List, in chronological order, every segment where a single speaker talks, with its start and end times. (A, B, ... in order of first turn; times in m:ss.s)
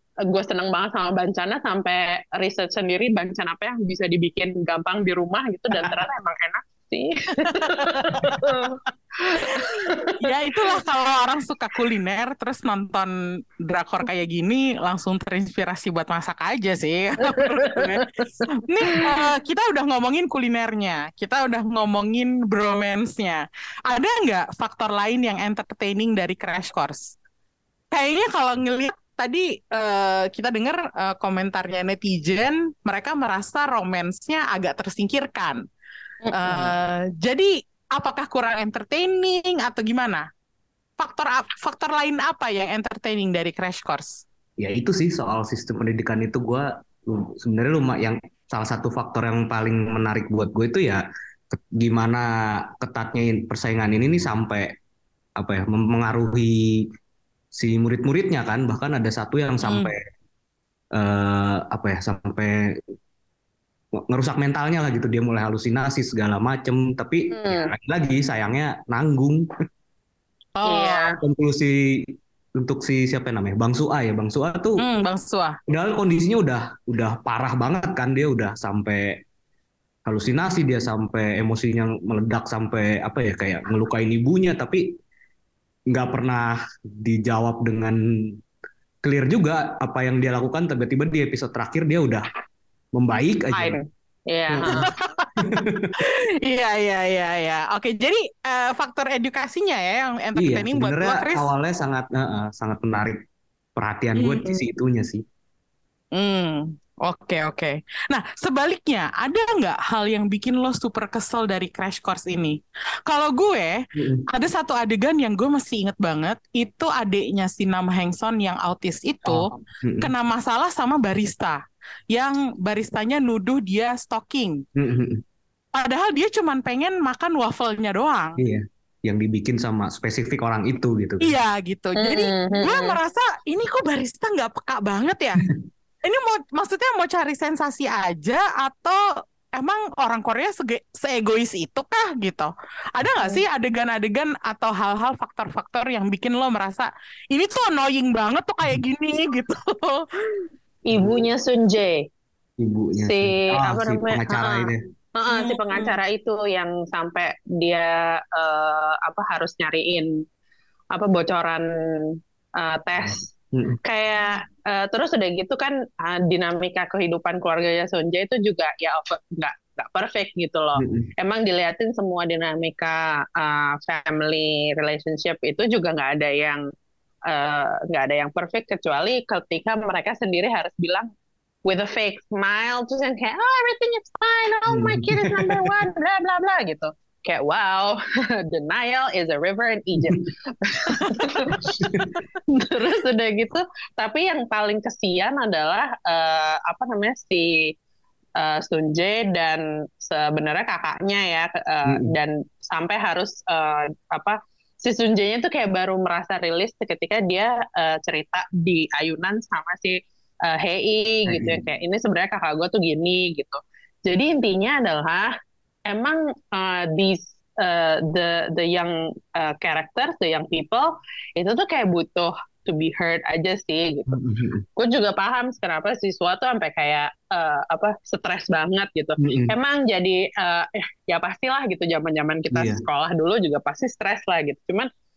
0:00.2-0:10.3 A
0:07.4-0:08.6 B
0:09.4-0:13.1 B
0:13.6-0:18.0 B
0:17.4-0:18.0 A
0:18.6-0:27.1 B
0:27.9-0:35.6 B
0:36.2-0:36.7 A
0:36.4-0:40.2 B
0:41.0-0:44.2 B
0:44.6-0:54.7 C
0:55.4-0:56.8 C
0:57.6-1:00.0 C
0:59.6-0:59.9 B
1:00.9-1:02.7 C
1:04.1-1:09.4 C
1:07.3-1:07.7 A
1:10.6-1:11.1 B
1:10.6-1:11.2 A
1:11.2-1:14.8 C
1:14.8-1:15.6 B
1:15.7-1:19.2 C
1:20.1-1:24.8 C
1:25.9-1:28.0 C
1:29.0-1:32.3 C
1:32.9-1:33.8 C
1:33.5-1:34.9 A
1:34.5-1:34.8 C
1:34.7-1:41.5 B
1:35.4-1:35.9 C
1:40.4-1:43.2 C
1:43.8-1:45.2 C
1:44.2-1:44.5 B
1:46.1-1:59.5 B
1:54.0-1:54.2 C
1:59.2-2:00.1 C
2:00.0-2:01.6 B
2:02.1-2:04.6 B
2:04.8-2:05.2 C
2:05.7-2:08.4 B
2:08.4-2:11.3 C
2:11.2-2:15.4 B
2:12.0-2:13.0 A
2:16.0-2:19.0 B
2:19.6-2:30.4 B
2:30.9-2:32.0 A
2:30.9-2:31.2 C
2:32.6-2:34.8 C
2:33.0-2:40.2 A
2:35.3-2:35.9 B
2:40.9-2:43.2 A
2:43.0-2:43.8 C
2:43.8-2:56.6 A
2:50.8-2:51.1 C
2:57.3-3:01.1 A
3:01.6-3:11.7 A
3:04.7-3:05.7 C
3:10.0-3:10.2 C
3:10.9-3:11.6 B
3:11.8-3:12.2 C
3:12.5-3:17.7 A
3:18.4-3:35.3 A
3:31.3-3:31.6 C
3:35.8-3:44.1 A
3:44.1-3:44.6 C
3:44.8-3:54.9 A
3:49.2-3:49.5 C
3:52.5-3:52.8 C